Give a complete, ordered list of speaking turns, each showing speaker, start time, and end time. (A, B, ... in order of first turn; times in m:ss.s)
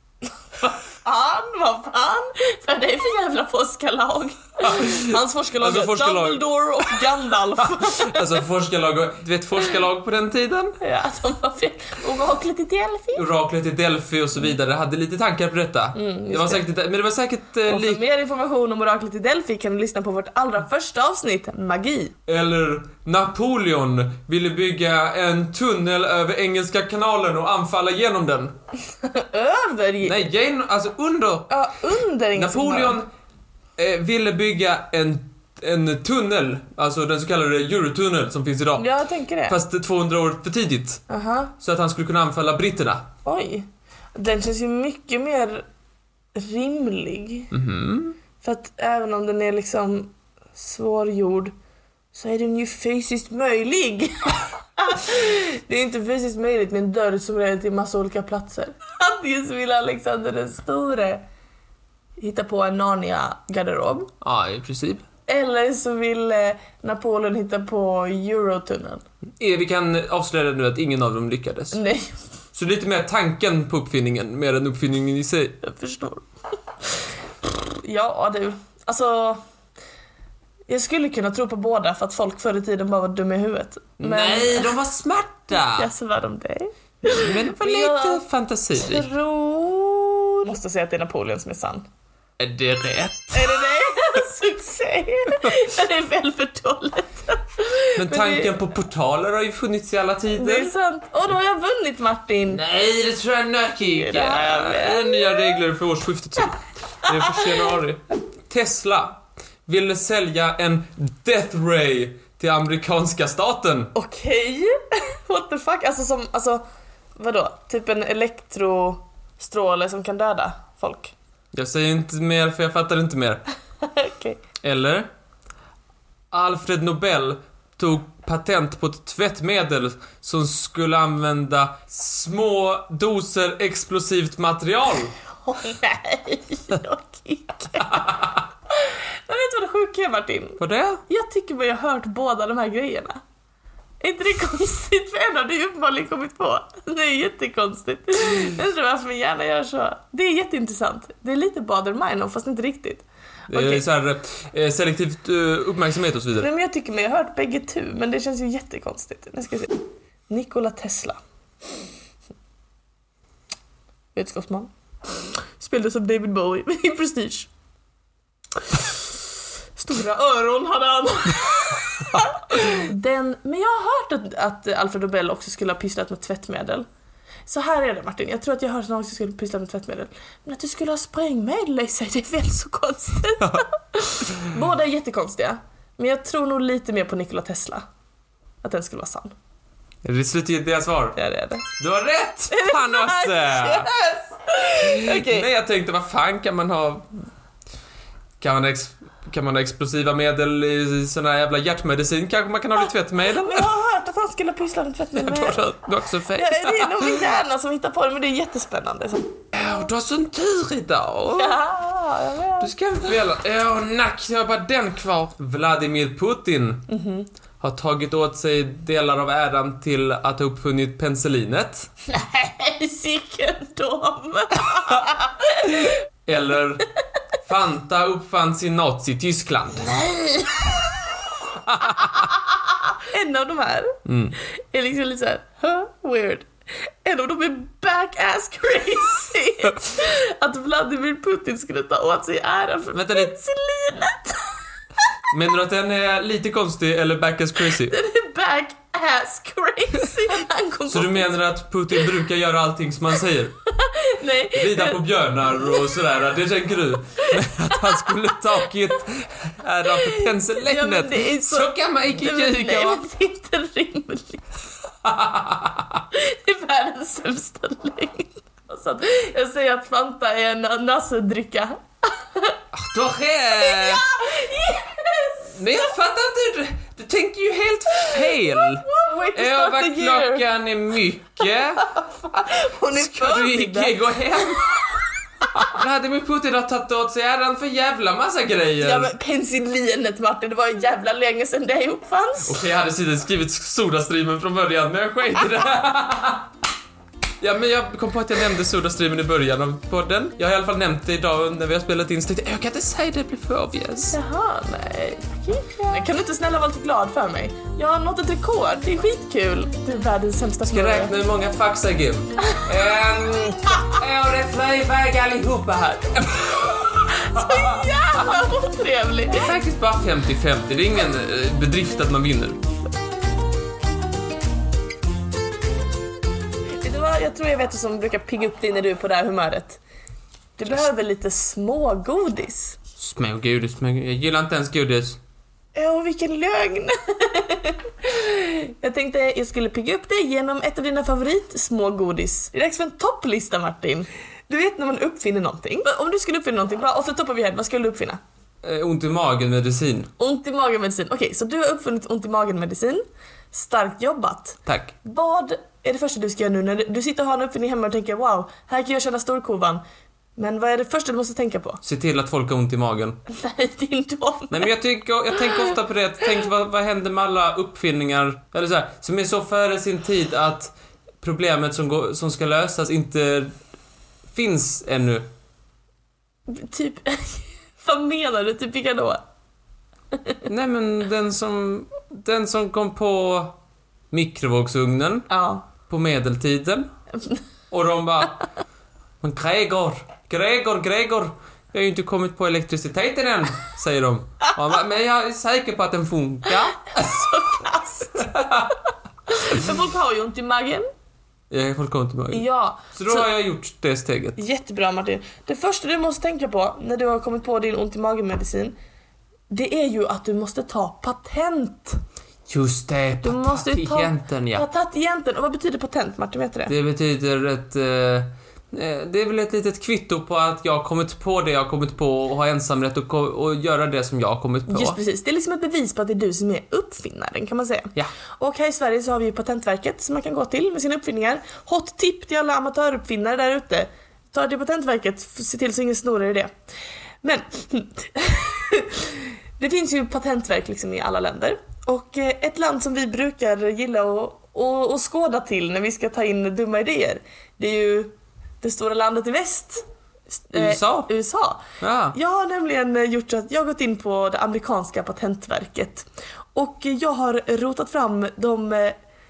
0:00.6-0:08.4 A
0:04.6-0:07.0 B
0:07.6-0:10.8 B
0:10.8-0:13.2 A
0:13.1-0:18.0 B
0:15.9-0:16.6 A
0:17.7-0:22.2 A
0:22.3-0:28.6 B
0:29.0-0:30.2 A
0:30.0-0:31.5 B
0:31.5-0:33.0 A
0:32.4-0:33.1 B
0:33.8-0:38.9 B
0:38.8-0:39.6 A
0:39.5-0:41.0 B
0:41.1-0:41.5 A
0:41.6-0:43.1 B
0:43.2-0:45.6 A
0:46.4-0:47.5 A
0:47.5-0:48.1 B
0:48.4-0:51.5 A
0:52.1-1:01.2 A
1:02.2-1:04.1 A
1:04.2-1:05.0 B
1:05.3-1:09.0 A
1:09.4-1:11.8 B
1:11.7-1:12.1 A
1:12.5-1:15.6 B
1:15.6-1:16.2 A
1:17.4-1:19.4 A
1:20.7-1:24.7 A
1:24.0-1:25.9 B
1:25.6-1:28.2 A
1:27.1-1:29.1 B
1:28.7-1:31.9 A
1:32.4-1:33.7 B
1:33.3-1:38.5 A
1:38.0-1:40.7 B
1:40.4-1:42.6 A
1:42.5-1:53.9 B
1:44.0-1:45.6 A
1:47.1-1:47.4 A
1:53.9-1:56.6 A
1:57.2-2:01.1 A
2:01.5-2:03.4 B
2:03.8-2:04.4 A
2:04.6-2:05.1 B
2:06.3-2:15.1 B
2:15.4-2:23.2 A
2:18.0-2:18.2 B
2:20.6-2:21.0 B
2:24.0-2:33.8 A
2:33.5-2:36.5 B
2:36.4-2:41.2 A
2:44.1-2:44.7 A
2:45.6-2:47.5 A
2:48.7-2:49.0 A
2:49.8-2:56.9 A
2:57.5-3:07.8 A
3:08.6-3:09.3 A
3:10.0-3:11.2 B
3:11.2-3:11.7 A
3:11.8-3:13.9 B
3:12.5-3:15.5 A
3:14.8-3:17.1 B
3:18.4-3:23.7 B
3:23.3-3:25.6 A
3:25.1-3:27.2 B
3:26.3-3:29.3 A
3:29.5-3:31.6 B
3:31.3-3:32.7 A
3:32.6-3:36.9 B
3:36.9-3:37.3 A
3:37.6-3:41.9 B
3:42.1-3:46.0 A
3:45.9-3:46.8 B
3:47.4-3:50.0 B
3:49.9-3:50.8 A
3:51.6-3:52.2 B
3:51.9-4:04.6 A
3:54.1-3:54.4 B
4:02.9-4:03.4 B
4:05.3-4:07.9 B
4:07.8-4:11.4 A
4:10.9-4:13.6 B
4:13.7-4:15.0 A
4:14.5-4:23.0 B
4:15.6-4:15.9 A
4:17.2-4:18.1 A
4:20.0-4:24.4 A
4:25.0-4:26.0 B
4:26.1-4:32.6 A
4:32.7-4:34.1 B
4:33.6-4:35.6 A
4:35.6-4:41.9 B
4:38.8-4:40.4 A
4:41.8-4:44.7 A
4:42.9-4:44.7 B
4:45.6-4:49.1 B
4:48.8-4:52.6 A
4:52.4-4:56.5 B
4:57.4-5:04.2 B
5:04.1-5:11.1 A
5:10.7-5:17.9 B
5:17.1-5:19.5 A
5:19.3-5:22.6 B
5:26.8-5:29.8 A
5:30.6-5:32.8 A
5:33.0-5:35.2 B
5:35.7-5:48.2 A
5:48.6-5:50.1 B
5:50.2-5:59.8 A
5:54.6-5:54.9 B
6:00.4-6:01.8 A
6:01.8-6:03.2 B
6:03.3-6:04.7 A
6:04.5-6:13.5 B
6:14.3-6:15.2 B
6:16.5-6:19.2 A
6:20.1-6:20.4 A
6:20.4-6:23.6 B
6:24.1-6:25.3 B
6:25.3-6:25.6 A
6:25.8-6:26.9 B
6:27.7-6:28.4 B
6:29.2-6:37.4 B
6:37.0-6:38.3 A
6:38.1-6:38.8 B
6:39.3-6:40.9 A
6:41.5-6:44.4 B
6:42.3-6:43.3 A
6:44.4-6:48.8 A
6:49.5-6:52.0 A
6:52.5-6:54.6 B
6:53.2-6:56.7 A
6:56.7-7:05.0 B
7:04.7-7:16.5 A
7:17.2-7:29.8 A
7:30.4-7:39.0 A
7:30.5-7:31.1 B
7:31.8-7:32.2 B